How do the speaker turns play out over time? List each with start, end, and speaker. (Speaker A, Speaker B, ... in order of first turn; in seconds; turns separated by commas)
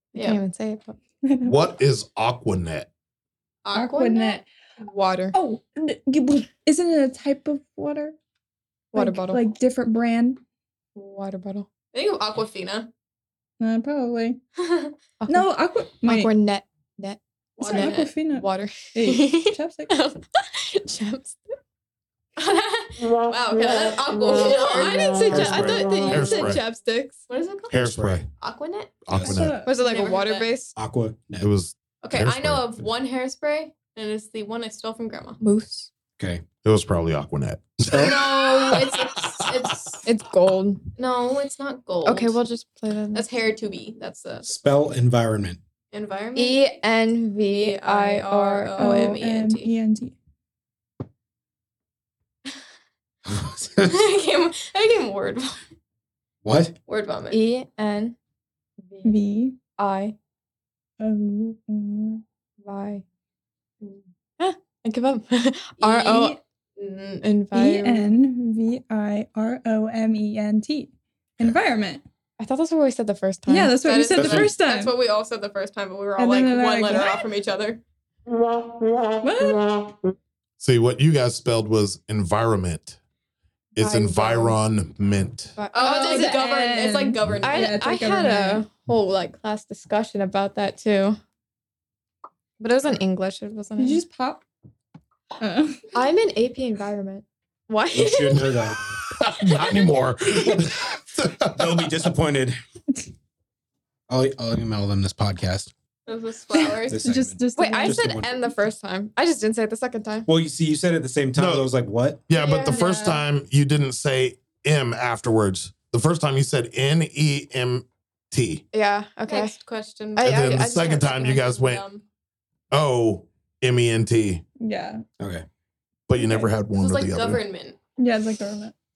Speaker A: 0.1-0.4, Speaker B: 0.1-1.0, Speaker C: 1.2-1.6, Speaker D: 1.4-2.9, Speaker A: 3.6-4.4, Speaker C: 3.7-4.4, Speaker B: 4.8-5.4, Speaker C: 5.3-8.2, Speaker B: 8.9-9.4, Speaker C: 8.9-10.4, Speaker B: 10.9-11.7, Speaker A: 11.9-12.9, Speaker C: 13.6-14.4, Speaker A: 14.6-14.9, Speaker B: 15.2-15.5, Speaker C: 15.3-16.3, Speaker B: 16.0-21.4, Speaker A: 17.6-18.1, Speaker C: 17.6-19.9, Speaker A: 22.4-26.6, Speaker B: 24.3-27.2, Speaker E: 25.3-25.9, Speaker D: 26.1-26.6, Speaker A: 27.3-27.9, Speaker D: 27.7-28.3, Speaker E: 27.8-28.2, Speaker A: 28.4-29.1, Speaker D: 29.1-29.6, Speaker E: 29.1-29.5, Speaker C: 29.2-29.7, Speaker B: 29.6-30.7, Speaker A: 29.6-30.5, Speaker E: 30.7-31.5, Speaker D: 31.4-32.8, Speaker A: 32.0-35.4, Speaker B: 35.4-35.9, Speaker E: 36.2-36.4, Speaker D: 36.6-39.7, Speaker E: 37.9-38.2, Speaker A: 37.9-40.1, Speaker B: 40.0-40.9, Speaker A: 41.0-42.4, Speaker B: 42.0-43.2, Speaker A: 43.1-44.5, Speaker E: 44.4-45.6, Speaker A: 45.9-46.6, Speaker B: 46.4-49.1, Speaker A: 47.5-49.7, Speaker C: 48.8-50.1, Speaker E: 53.3-54.1, Speaker A: 53.8-55.6, Speaker E: 56.4-56.7, Speaker A: 56.9-57.4, Speaker B: 57.3-58.1, Speaker B: 58.9-59.2, Speaker C: 59.0-59.6, Speaker B: 59.8-60.1, Speaker C: 61.0-62.2, Speaker B: 62.6-63.0, Speaker B: 63.8-66.4, Speaker A: 65.8-67.2, Speaker B: 67.2-68.1, Speaker C: 67.5-72.0, Speaker B: 72.4-73.8, Speaker C: 73.5-74.9, Speaker A: 73.8-77.8, Speaker E: 74.1-74.5, Speaker C: 76.2-77.2, Speaker C: 79.2-79.9, Speaker D: 80.6-83.0, Speaker D: 83.8-85.6, Speaker B: 83.8-84.6, Speaker B: 85.6-86.5, Speaker A: 85.7-87.7, Speaker C: 85.8-88.7, Speaker B: 87.4-91.2, Speaker B: 92.6-94.0, Speaker C: 93.8-94.4, Speaker C: 95.4-95.9, Speaker B: 95.9-98.7, Speaker E: 97.9-99.0, Speaker D: 99.0-102.1, Speaker E: 101.5-102.6, Speaker E: 104.1-105.7, Speaker A: 106.1-107.0, Speaker C: 106.6-108.1, Speaker E: 106.9-108.5, Speaker B: 107.6-110.3, Speaker E: 110.3-112.2, Speaker D: 111.3-111.7, Speaker D: 112.3-118.6, Speaker A: 112.4-112.9, Speaker C: 112.6-113.2, Speaker B: 118.7-119.6, Speaker A: 119.3-122.0, Speaker B: 120.2-121.5, Speaker D: 120.2-121.9, Speaker D: 122.7-124.4, Speaker C: 124.6-125.0, Speaker E: 125.2-125.5, Speaker D: 126.1-127.4, Speaker A: 126.7-127.8, Speaker C: 128.0-128.7